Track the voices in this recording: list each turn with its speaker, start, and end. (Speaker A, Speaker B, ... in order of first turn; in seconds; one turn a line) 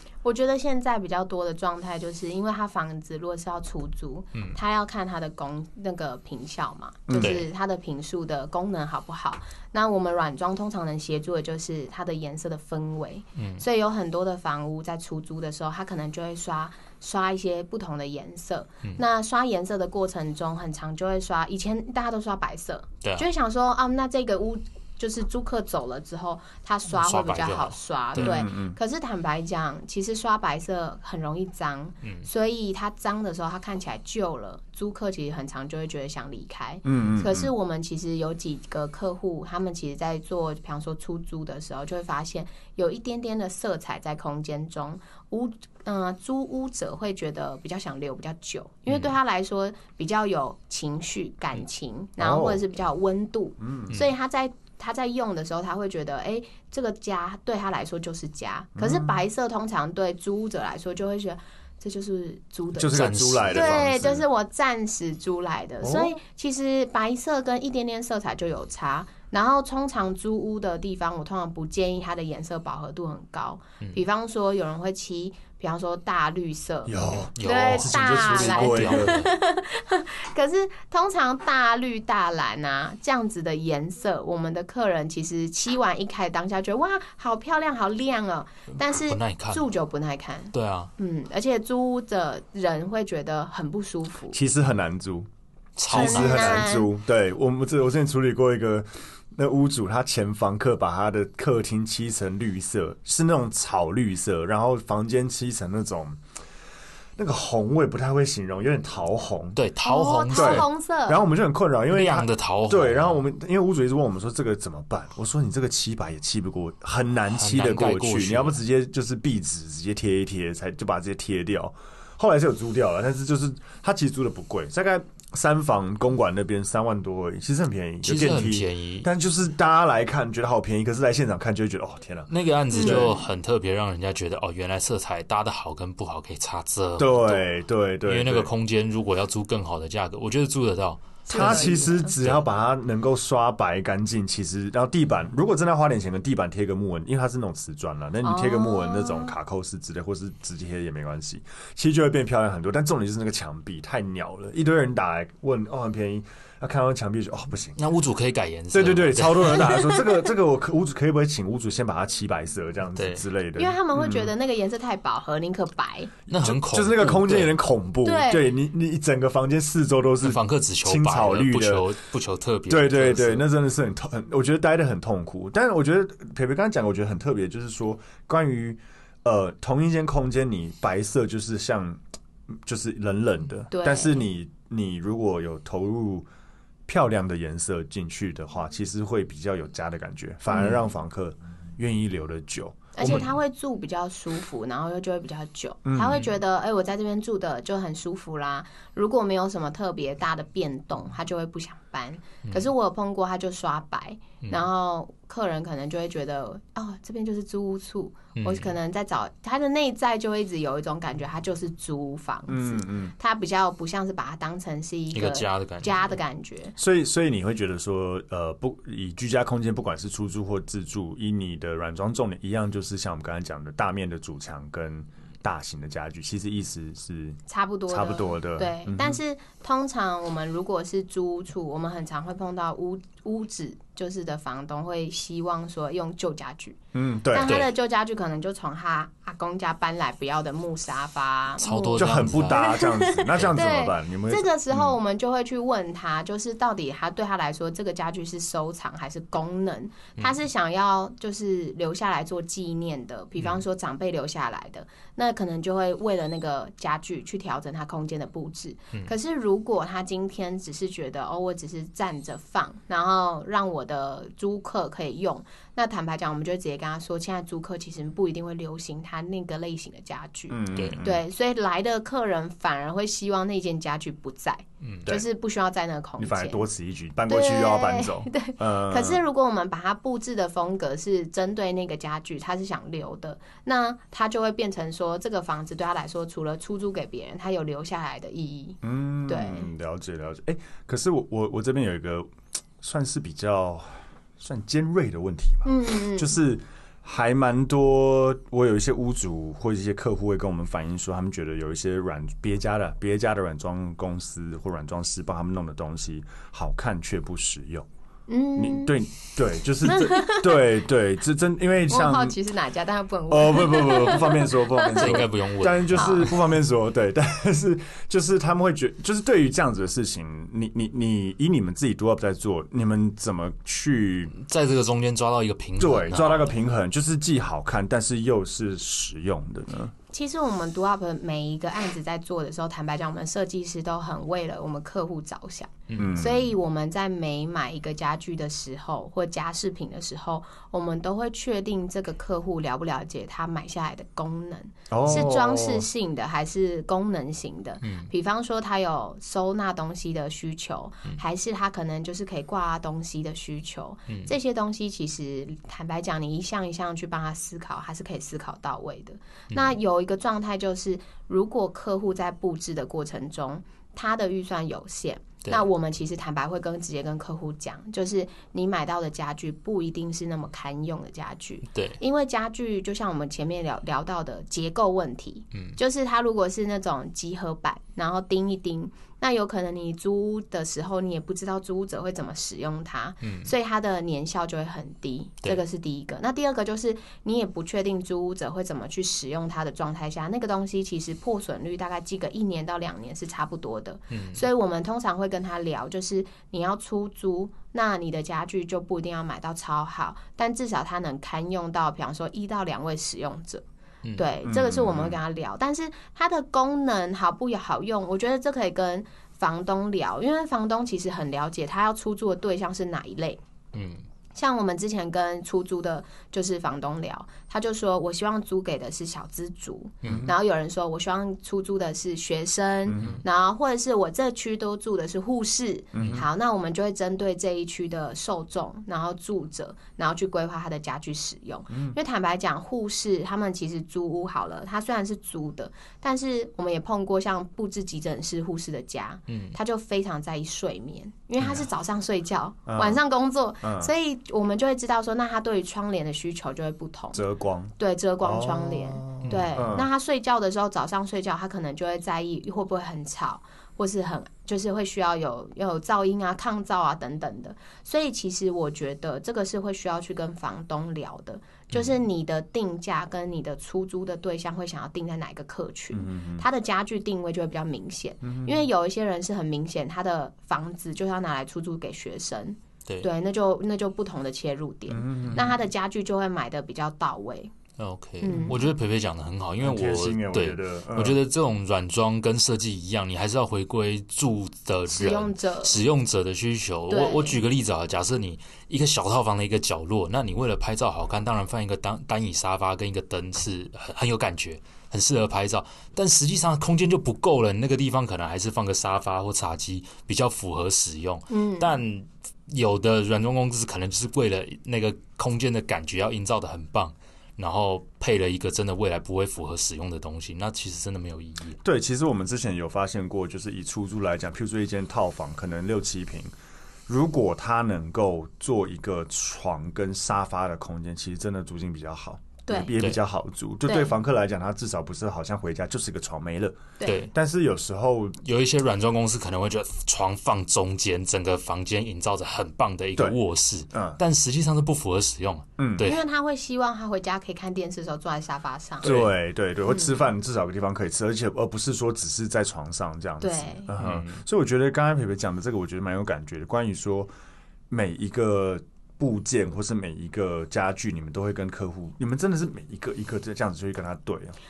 Speaker A: 0.2-94.4
Speaker B: 7.1-7.4
Speaker C: 7.2-7.5
Speaker C: 13.4-13.6
Speaker C: 26.9-28.4
Speaker B: 28.2-28.8
Speaker B: 36.9-37.5
Speaker C: 48.9-49.1
Speaker B: 52.2-52.6
Speaker B: 53.6-54.0
Speaker B: 58.8-59.2
Speaker B: 62.7-64.2
Speaker C: 62.9-63.8
Speaker B: 65.8-66.2
Speaker B: 76.9-79.2
Speaker C: 77.1-79.3
Speaker C: 88.8-89.6
Speaker C: 90.5-90.9
Speaker B: 94.3-95.3
Speaker C: 95.8-96.7
Speaker B: 95.9-106.2
Speaker A: 95.9-96.9
Speaker B: 107.2-109.6
Speaker C: 109.5-110.7
Speaker A: 109.8-111.2
Speaker B: 110.3-133.2
Speaker C: 111.9-113.2
Speaker C: 117.3-118.6
Speaker C: 128.0-129.1
Speaker C: 132.3-137.5
Speaker A: 132.7-133.2
Speaker B: 137.0-138.5
Speaker C: 138.1-142.4
Speaker A: 141.3-142.1
Speaker B: 141.3-157.8
Speaker A: 148.2-149.3
Speaker C: 157.8-159.7
Speaker B: 158.7-164.3
Speaker C: 163.0-163.2
Speaker A: 163.6-166.1
Speaker C: 166.3-167.6
Speaker B: 166.4-171.9
Speaker A: 168.0-168.5
Speaker C: 170.2-173.5
Speaker B: 172.7-186.3
Speaker A: 183.7-184.3
Speaker B: 186.9-193.3
Speaker A: 193.0-216.8
Speaker B: 195.8-196.2
Speaker C: 202.4-202.7
Speaker C: 208.4-208.7
Speaker B: 212.5-213.1
Speaker C: 215.1-216.1
Speaker B: 216.8-229.2
Speaker A: 227.5-236.8
Speaker B: 236.9-237.5
Speaker A: 237.3-276.6
Speaker C: 237.4-237.7
Speaker C: 241.6-242.6
Speaker B: 241.9-245.0
Speaker B: 270.5-271.2
Speaker C: 270.8-271.0
Speaker C: 274.8-275.1
Speaker B: 276.2-279.2
Speaker A: 277.3-289.7
Speaker B: 288.8-307.9
Speaker A: 295.6-296.4
Speaker A: 308.3-309.0
Speaker B: 308.6-312.4
Speaker A: 309.8-310.6
Speaker A: 311.9-315.3
Speaker B: 313.3-324.3
Speaker C: 314.9-316.4
Speaker A: 315.9-316.3
Speaker C: 324.3-326.5
Speaker B: 325.8-329.9
Speaker A: 330.1-403.6
Speaker C: 335.9-336.2
Speaker B: 336.0-336.5
Speaker B: 344.9-345.9
Speaker C: 347.8-348.1
Speaker C: 359.5-359.8
Speaker C: 371.7-372.0
Speaker C: 375.5-375.8
Speaker C: 383.2-383.5
Speaker C: 394.1-394.4
Speaker C: 404.0-404.3
Speaker A: 404.2-413.4
Speaker B: 404.4-405.2
Speaker C: 413.7-414.1
Speaker A: 414.3-447.2
Speaker B: 420.0-420.3
Speaker B: 422.9-423.2
Speaker B: 425.9-426.2
Speaker B: 431.7-431.9
Speaker C: 439.3-439.6
Speaker B: 442.7-443.0
Speaker B: 443.6-443.9
Speaker B: 447.1-449.9
Speaker A: 447.8-477.5
Speaker C: 449.2-449.7
Speaker B: 465.9-466.4
Speaker B: 468.2-468.6
Speaker B: 474.9-475.5
Speaker C: 477.8-511.6
Speaker A: 478.2-478.6
Speaker B: 478.3-478.6
Speaker B: 479.6-481.2
Speaker A: 484.9-485.8
Speaker A: 486.9-487.4
Speaker A: 501.3-501.8
Speaker B: 511.6-516.3
Speaker B: 516.9-528.2
Speaker A: 522.5-522.7
Speaker A: 523.6-523.9
Speaker A: 526.8-527.1
Speaker C: 526.9-527.1
Speaker C: 528.2-536.0
Speaker B: 533.7-534.0
Speaker B: 535.6-535.9
Speaker A: 535.8-538.9
Speaker C: 538.8-539.1
Speaker B: 538.8-547.1
Speaker A: 539.7-539.9
Speaker A: 543.2-543.7
Speaker C: 543.8-544.2
Speaker B: 547.7-554.4